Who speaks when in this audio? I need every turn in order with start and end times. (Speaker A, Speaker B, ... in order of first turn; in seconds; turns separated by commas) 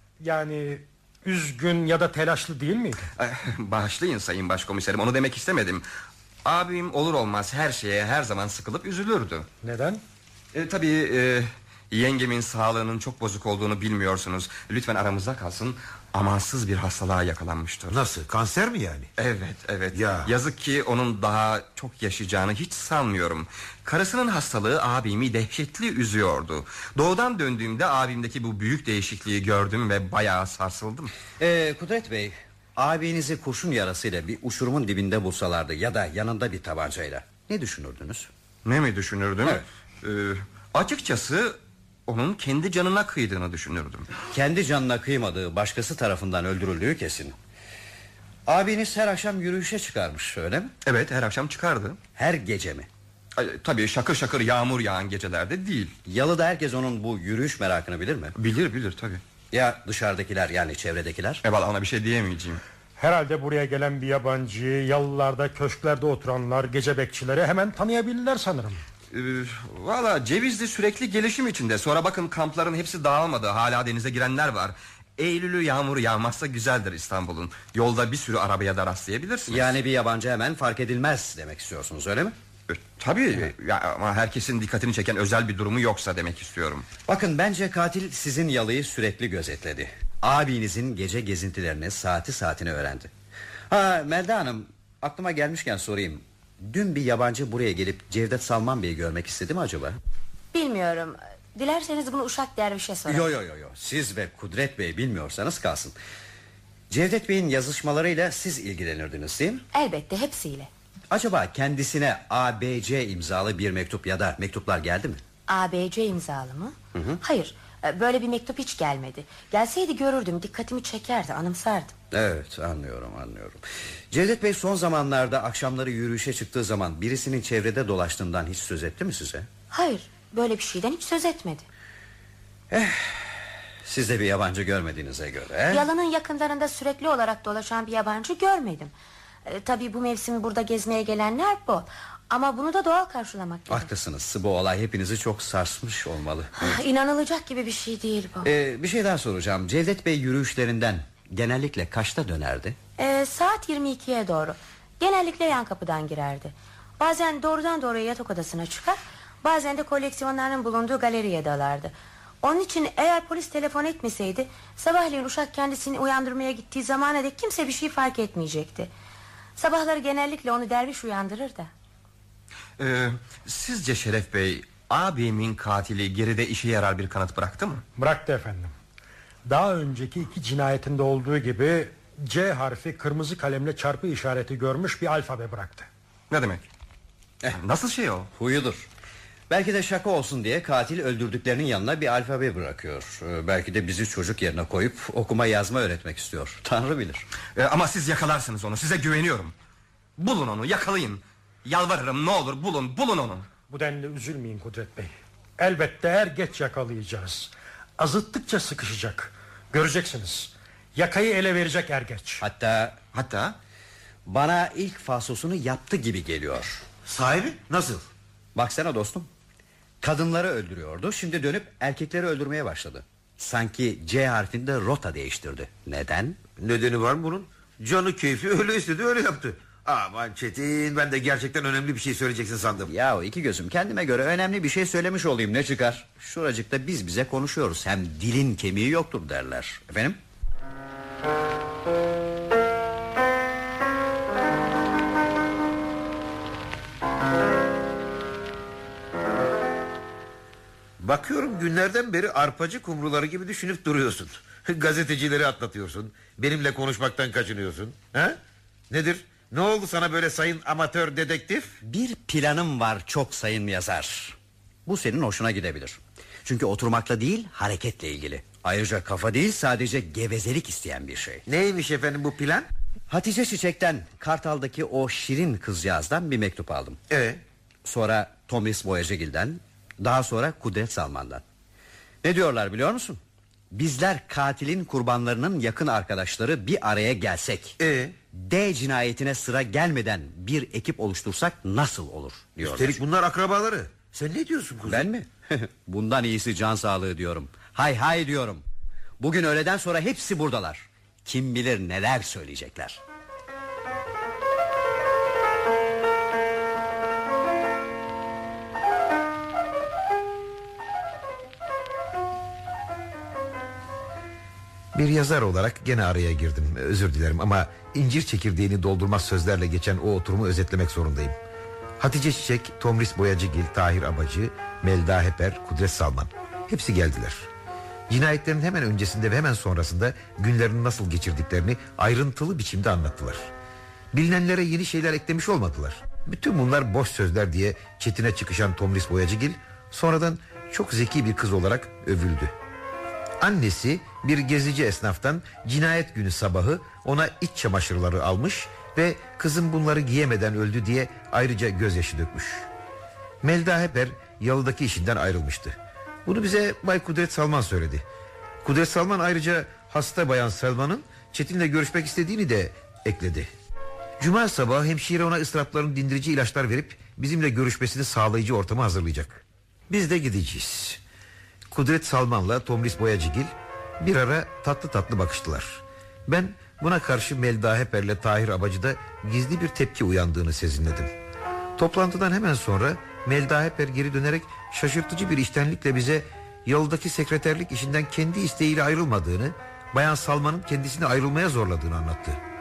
Speaker A: 0.2-3.1, Speaker B: 3.2-5.8, Speaker B: 6.5-9.5, Speaker A: 9.6-10.0, Speaker B: 10.5-18.0, Speaker C: 17.9-19.1, Speaker B: 19.2-31.1, Speaker C: 19.9-20.3, Speaker D: 31.4-38.3, Speaker B: 38.6-44.1, Speaker D: 44.3-47.4, Speaker D: 48.5-50.7, Speaker B: 50.8-52.0, Speaker D: 52.2-52.9, Speaker B: 53.4-56.0, Speaker D: 56.0-58.4, Speaker B: 58.4-59.2, Speaker D: 59.5-61.4, Speaker B: 61.4-62.6, Speaker A: 63.0-68.8, Speaker B: 69.1-79.7, Speaker D: 79.5-82.4, Speaker B: 82.7-86.9, Speaker D: 87.1-93.1, Speaker D: 93.7-100.0, Speaker E: 100.5-103.3, Speaker D: 103.1-106.0, Speaker D: 106.9-109.7, Speaker E: 109.7-110.7, Speaker D: 111.1-115.2, Speaker E: 115.5-122.0, Speaker D: 116.9-117.2, Speaker D: 122.1-129.5, Speaker E: 129.7-131.7, Speaker D: 132.7-135.8, Speaker E: 135.7-138.9, Speaker E: 139.4-143.9, Speaker D: 143.7-146.8, Speaker E: 146.6-148.5, Speaker D: 148.4-152.8, Speaker E: 153.0-168.9, Speaker E: 169.6-171.7, Speaker B: 172.8-177.8, Speaker A: 178.0-178.7, Speaker A: 179.4-185.9, Speaker B: 186.3-186.7, Speaker B: 187.5-188.3, Speaker D: 188.3-188.9, Speaker D: 189.5-197.3, Speaker B: 197.6-199.6, Speaker B: 200.2-203.5, Speaker A: 203.7-212.4, Speaker D: 212.4-213.0, Speaker B: 213.1-213.6, Speaker D: 214.3-216.8, Speaker C: 217.1-218.0, Speaker D: 218.6-219.3, Speaker D: 220.0-226.4, Speaker C: 226.6-232.9, Speaker D: 232.9-240.2, Speaker C: 251.0-258.4, Speaker C: 258.9-261.7, Speaker D: 261.8-271.4, Speaker C: 271.5-272.7, Speaker D: 273.1-277.0, Speaker C: 277.1-277.4, Speaker D: 277.9-281.4, Speaker D: 282.2-283.2, Speaker D: 283.7-287.8, Speaker C: 287.8-288.2, Speaker D: 288.3-293.0, Speaker C: 292.6-295.1, Speaker D: 294.9-298.6, Speaker D: 299.2-303.0, Speaker C: 314.9-321.4, Speaker C: 322.0-327.5, Speaker C: 328.1-333.5, Speaker C: 334.1-342.5, Speaker C: 343.4-352.7, Speaker C: 353.4-358.0, Speaker C: 358.6-363.5, Speaker C: 364.2-371.0, Speaker C: 371.7-381.1, Speaker C: 381.8-392.4